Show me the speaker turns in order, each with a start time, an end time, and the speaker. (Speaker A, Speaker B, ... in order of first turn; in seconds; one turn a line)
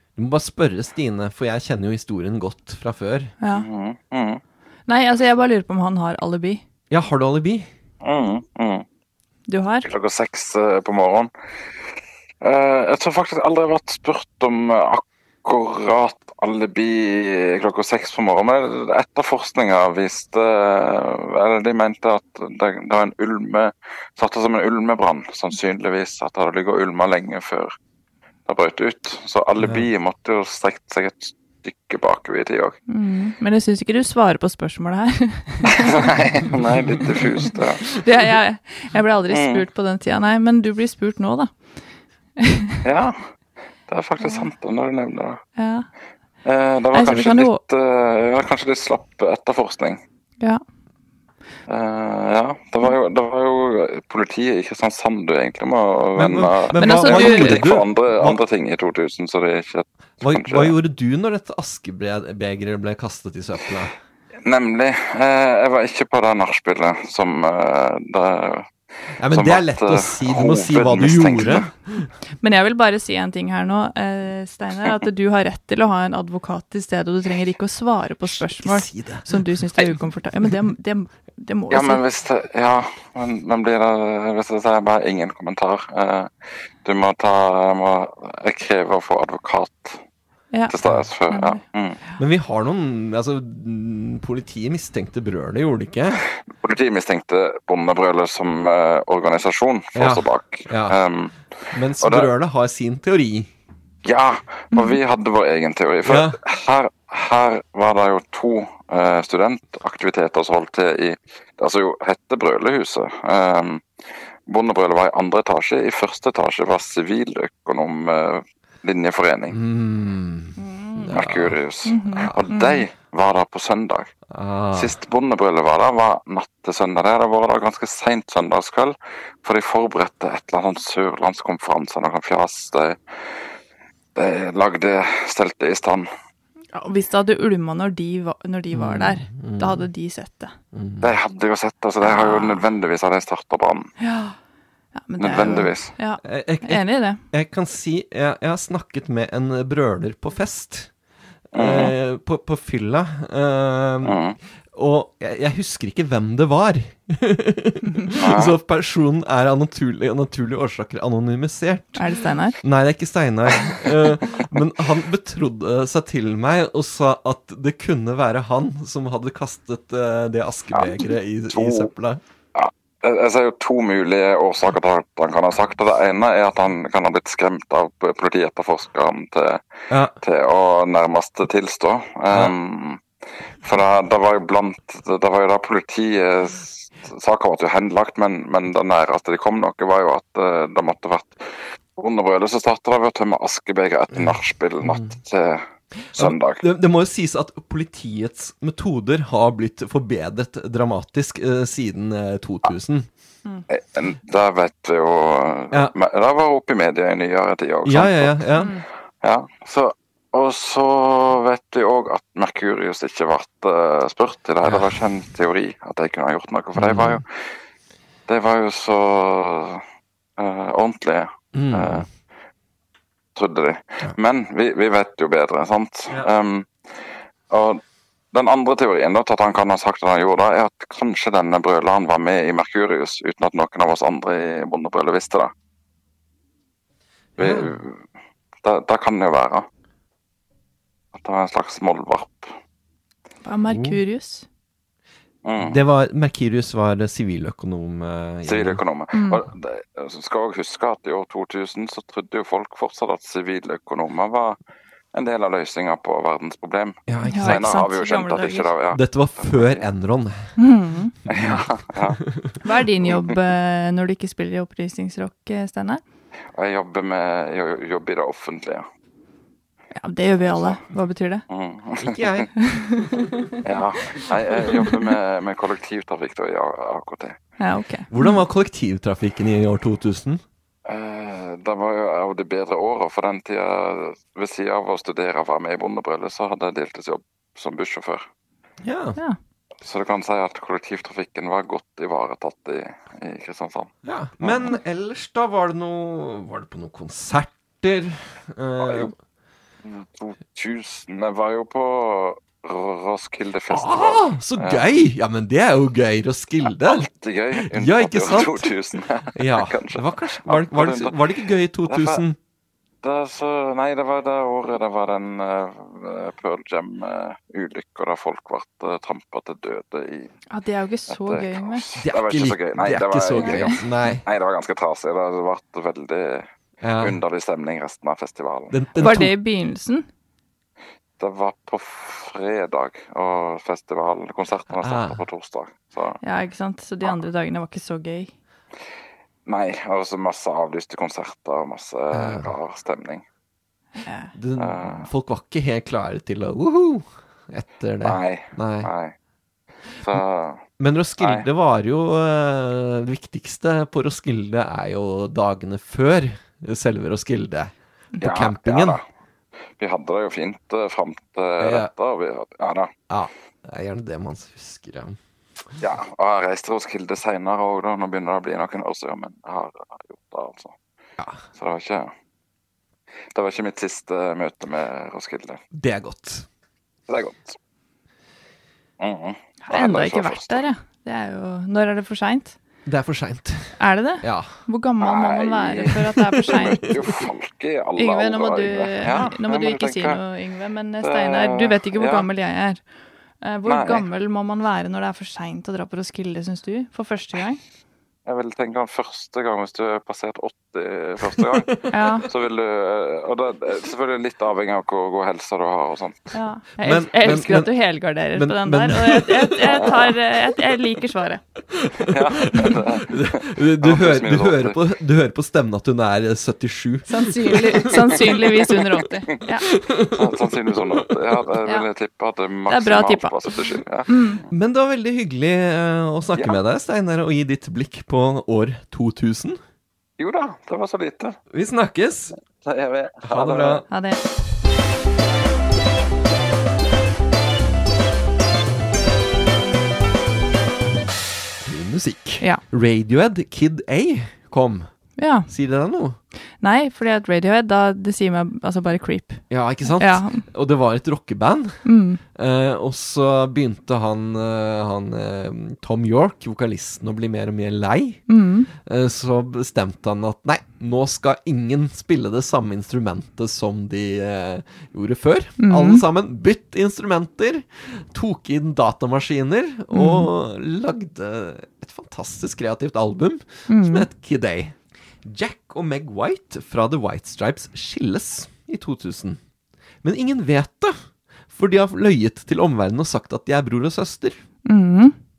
Speaker A: 0.2-3.3
Speaker B: 3.4-3.7
Speaker C: 3.5-4.4
Speaker B: 4.9-6.6
Speaker A: 6.9-7.7
Speaker C: 8.0-8.8
Speaker B: 9.5-9.9
Speaker C: 9.8-11.3
Speaker C: 12.4-27.7
Speaker C: 28.5-32.8
Speaker A: 29.6-29.9
Speaker B: 32.9-35.9
Speaker C: 35.6-37.8
Speaker A: 36.9-37.2
Speaker B: 37.9-41.5
Speaker C: 39.3-39.6
Speaker B: 42.4-42.8
Speaker C: 42.8-43.3
Speaker C: 43.9-45.4
Speaker B: 44.2-44.5
Speaker B: 45.6-45.9
Speaker C: 46.4-50.0
Speaker B: 46.9-47.6
Speaker C: 51.7-60.8
Speaker A: 56.2-58.4
Speaker B: 56.8-57.7
Speaker A: 60.2-63.9
Speaker C: 64.5-68.7
Speaker A: 69.2-72.1
Speaker C: 69.3-71.7
Speaker B: 72.4-82.0
Speaker A: 78.3-80.0
Speaker C: 81.7-86.3
Speaker C: 86.8-90.0
Speaker C: 90.7-92.0
Speaker B: 91.3-91.6
Speaker A: 92.2-96.2
Speaker C: 96.5-101.4
Speaker A: 100.0-101.0
Speaker A: 101.7-103.5
Speaker C: 102.0-102.3
Speaker C: 104.0-113.8
Speaker A: 106.1-106.4
Speaker C: 114.5-119.6
Speaker A: 119.5-121.6
Speaker B: 120.6-121.2
Speaker C: 121.1-124.1
Speaker B: 121.8-122.8
Speaker A: 124.3-125.0
Speaker C: 124.7-133.0
Speaker C: 134.2-136.1
Speaker B: 136.7-140.5
Speaker A: 138.7-139.9
Speaker A: 140.7-141.1
Speaker C: 141.0-143.9
Speaker B: 142.0-142.7
Speaker B: 144.0-144.3
Speaker B: 145.0-147.2
Speaker C: 145.2-145.9
Speaker A: 146.2-150.9
Speaker A: 151.5-154.2
Speaker C: 151.6-151.9
Speaker C: 154.0-154.4
Speaker A: 154.7-162.0
Speaker C: 158.2-158.6
Speaker B: 161.9-162.6
Speaker A: 162.6-172.2
Speaker C: 170.7-171.9
Speaker C: 172.6-179.7
Speaker A: 179.9-180.2
Speaker C: 180.2-183.0
Speaker C: 183.6-196.6
Speaker A: 194.1-195.2
Speaker A: 196.0-203.1
Speaker C: 203.7-208.4
Speaker A: 207.8-208.7
Speaker B: 208.6-208.8
Speaker C: 209.2-217.3
Speaker A: 214.7-214.9
Speaker A: 216.8-217.2
Speaker C: 218.3-219.8
Speaker C: 220.4-222.1
Speaker A: 221.5-222.1
Speaker C: 223.4-227.8
Speaker C: 228.3-235.5
Speaker A: 237.4-237.7
Speaker C: 237.4-238.0
Speaker C: 238.6-239.7
Speaker C: 241.1-242.5
Speaker B: 243.4-244.5
Speaker A: 243.7-244.0
Speaker C: 245.4-245.8
Speaker A: 245.6-248.8
Speaker C: 248.5-254.6
Speaker B: 249.1-249.4
Speaker C: 255.1-259.9
Speaker A: 257.1-257.7
Speaker B: 257.3-258.7
Speaker A: 258.9-260.5
Speaker B: 260.6-261.1
Speaker C: 261.3-262.2
Speaker A: 261.3-261.6
Speaker A: 262.2-262.6
Speaker B: 262.6-266.0
Speaker C: 266.5-268.9
Speaker B: 269.9-271.4
Speaker C: 270.5-270.8
Speaker C: 271.5-272.4
Speaker A: 272.0-272.5
Speaker B: 272.6-273.1
Speaker C: 273.6-277.4
Speaker B: 277.6-278.4
Speaker A: 278.1-280.4
Speaker C: 280.9-288.2
Speaker A: 288.8-289.2
Speaker C: 289.8-294.8
Speaker A: 294.0-299.1
Speaker C: 298.8-299.1
Speaker C: 299.8-304.9
Speaker A: 303.7-308.7
Speaker C: 306.8-311.2
Speaker A: 309.4-312.4
Speaker C: 311.9-312.2
Speaker C: 313.0-320.3
Speaker B: 320.5-321.9
Speaker C: 321.1-326.5
Speaker A: 322.0-324.2
Speaker B: 323.4-323.8
Speaker A: 326.8-327.2
Speaker C: 327.0-328.8
Speaker A: 328.7-329.3
Speaker B: 329.0-330.1
Speaker C: 331.2-336.2
Speaker A: 334.7-335.2
Speaker B: 336.2-338.3
Speaker C: 339.5-343.2
Speaker A: 342.1-342.5
Speaker B: 344.0-344.3
Speaker A: 344.4-348.9
Speaker C: 344.6-345.1
Speaker C: 348.0-349.1
Speaker C: 350.0-350.6
Speaker A: 350.8-359.0
Speaker C: 351.2-351.4
Speaker C: 358.2-359.0
Speaker C: 359.8-362.9
Speaker A: 361.6-361.9
Speaker A: 363.1-365.2
Speaker C: 365.8-370.8
Speaker A: 371.2-371.4
Speaker C: 371.6-372.1
Speaker C: 373.3-375.6
Speaker A: 375.7-376.5
Speaker C: 377.1-377.6
Speaker C: 379.0-380.6
Speaker B: 379.6-382.6
Speaker A: 382.9-384.5
Speaker B: 383.8-386.9
Speaker C: 385.0-390.2
Speaker A: 386.2-386.9
Speaker B: 388.0-392.8
Speaker C: 391.0-392.3
Speaker B: 393.4-397.6
Speaker C: 393.6-394.1
Speaker C: 398.3-406.3
Speaker B: 401.9-402.3
Speaker B: 406.3-411.4
Speaker A: 406.8-407.7
Speaker A: 408.4-410.1
Speaker A: 411.7-418.8
Speaker C: 412.1-414.8
Speaker B: 417.1-419.7
Speaker A: 419.7-421.1
Speaker C: 420.1-424.4
Speaker B: 422.7-423.4
Speaker B: 424.1-424.4
Speaker A: 424.5-429.6
Speaker C: 430.2-431.4
Speaker A: 431.5-432.3
Speaker C: 432.5-433.9
Speaker A: 433.2-433.9
Speaker B: 433.9-434.2
Speaker A: 441.6-444.9
Speaker B: 445.2-445.5
Speaker A: 445.5-446.2
Speaker B: 446.6-450.5
Speaker A: 449.5-458.2
Speaker B: 451.8-452.2
Speaker B: 458.3-458.7
Speaker A: 458.8-479.4
Speaker B: 465.6-466.0
Speaker B: 469.9-470.3
Speaker B: 473.7-474.1
Speaker A: 480.0-481.0
Speaker A: 481.5-484.4
Speaker B: 484.7-485.1